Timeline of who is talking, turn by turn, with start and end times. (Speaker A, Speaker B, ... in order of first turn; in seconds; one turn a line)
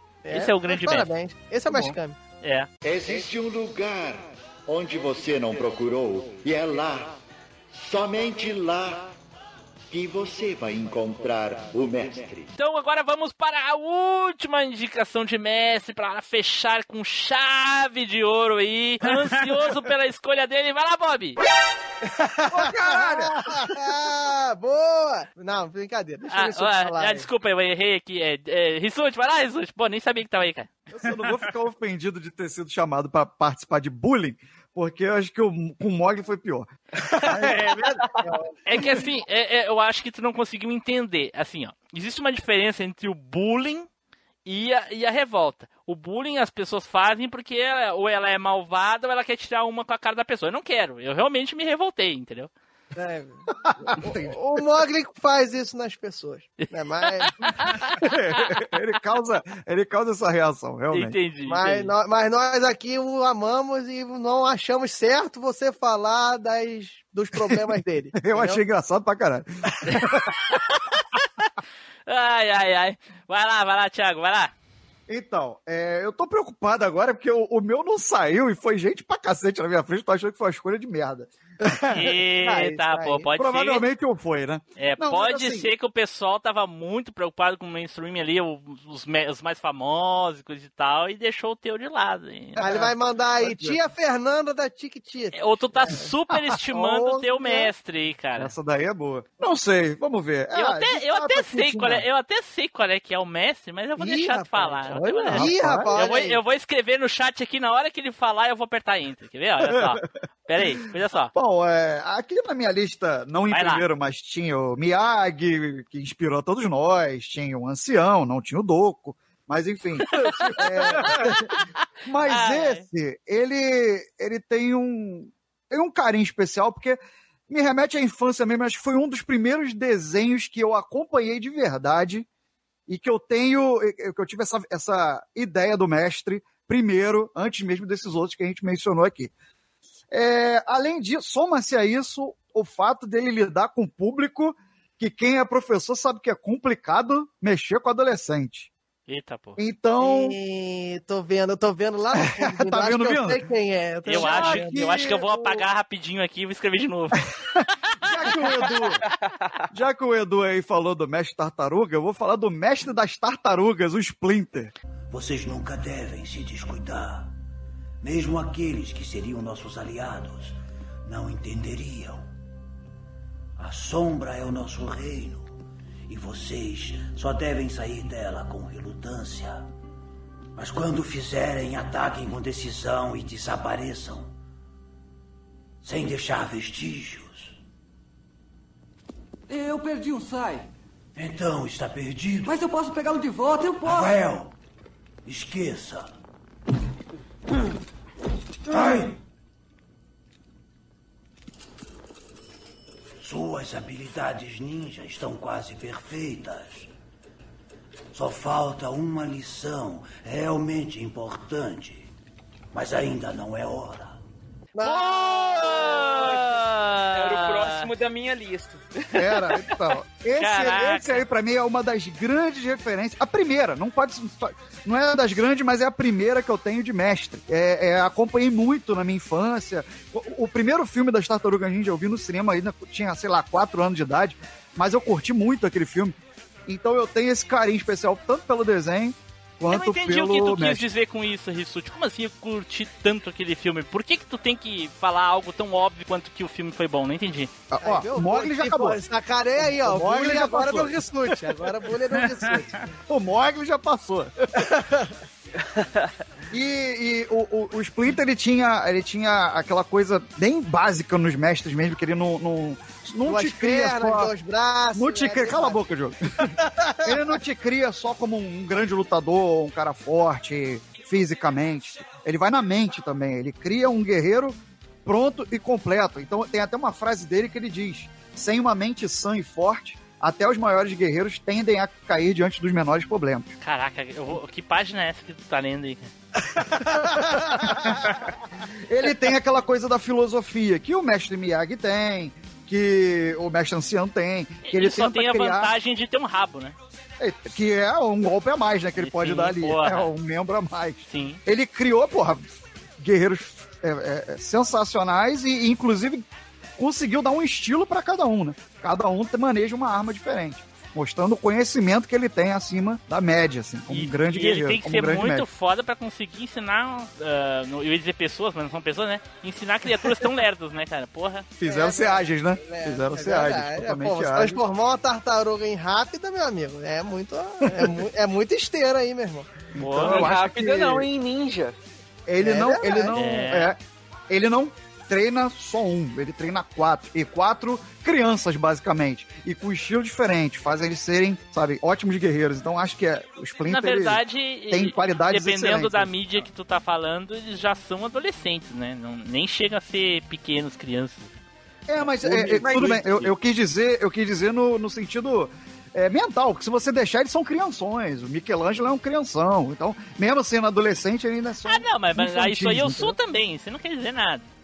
Speaker A: 0.2-2.2
Speaker B: 0.3-1.1
Speaker C: 1.7-1.9
Speaker B: 2.4-2.7
Speaker D: 2.8-7.1
Speaker D: 7.7-9.1
Speaker D: 9.9-12.5
Speaker B: 12.6-21.4
Speaker A: 22.1-27.2
Speaker C: 22.5-23.9
Speaker B: 26.3-30.7
Speaker C: 30.9-36.7
Speaker A: 37.0-39.0
Speaker C: 37.3-37.8
Speaker B: 38.6-43.9
Speaker B: 44.5-52.5
Speaker A: 53.0-57.3
Speaker C: 53.6-54.3
Speaker B: 57.2-58.0
Speaker C: 58.0-61.1
Speaker B: 60.9-61.9
Speaker A: 61.5-68.6
Speaker C: 68.2-70.3
Speaker B: 70.7-71.2
Speaker B: 72.1-74.5
Speaker C: 75.1-81.7
Speaker B: 81.9-83.8
Speaker A: 82.4-83.3
Speaker C: 83.3-85.7
Speaker B: 84.8-92.7
Speaker C: 92.5-93.8
Speaker A: 92.6-96.1
Speaker B: 95.3-98.5
Speaker A: 96.7-97.7
Speaker C: 98.4-102.0
Speaker B: 100.5-111.3
Speaker A: 104.0-106.4
Speaker C: 104.9-105.9
Speaker C: 109.6-110.0
Speaker C: 111.3-121.5
Speaker B: 113.5-113.8
Speaker A: 120.2-121.3
Speaker C: 122.0-127.0
Speaker B: 122.3-122.8
Speaker C: 127.5-132.2
Speaker C: 132.9-139.3
Speaker C: 140.1-148.7
Speaker B: 149.1-149.6
Speaker C: 149.6-150.4
Speaker A: 150.0-155.6
Speaker C: 152.1-153.4
Speaker B: 154.1-157.3
Speaker C: 154.1-155.0
Speaker C: 158.0-159.0
Speaker E: 159.2-159.5
Speaker C: 159.7-164.7
Speaker F: 165.2-167.0
Speaker F: 169.7-170.1
Speaker F: 177.2-177.8
Speaker F: 186.1-186.8
Speaker G: 189.5-190.7
Speaker G: 192.4-194.2
Speaker F: 195.3-195.9
Speaker G: 198.7-199.1
Speaker A: 214.8-216.2
Speaker B: 214.8-217.9
Speaker E: 216.2-216.5
Speaker E: 217.1-219.2
Speaker C: 219.1-236.2
Speaker B: 220.4-221.2
Speaker C: 236.7-240.8
Speaker B: 239.7-247.5
Speaker C: 247.7-249.0
Speaker A: 247.8-252.8
Speaker C: 249.6-251.7
Speaker C: 253.1-254.5
Speaker A: 254.6-255.2
Speaker E: 255.8-256.1
Speaker C: 256.5-264.3
Speaker A: 263.3-265.8
Speaker C: 264.9-283.5
Speaker A: 266.6-267.2
Speaker B: 283.6-286.1
Speaker A: 286.5-288.2
Speaker C: 287.3-288.1
Speaker C: 288.9-295.7
Speaker B: 294.6-296.8
Speaker C: 297.2-306.2
Speaker B: 299.0-300.1
Speaker B: 301.1-301.4
Speaker C: 306.8-315.5
Speaker B: 313.9-321.5
Speaker C: 321.6-324.6
Speaker A: 321.6-329.5
Speaker C: 329.7-331.1
Speaker B: 329.8-330.3
Speaker E: 330.0-331.8
Speaker C: 332.3-346.1
Speaker A: 332.4-333.2
Speaker B: 333.1-333.7
Speaker B: 343.6-351.3
Speaker C: 351.9-363.1
Speaker B: 352.0-353.3
Speaker B: 361.7-364.4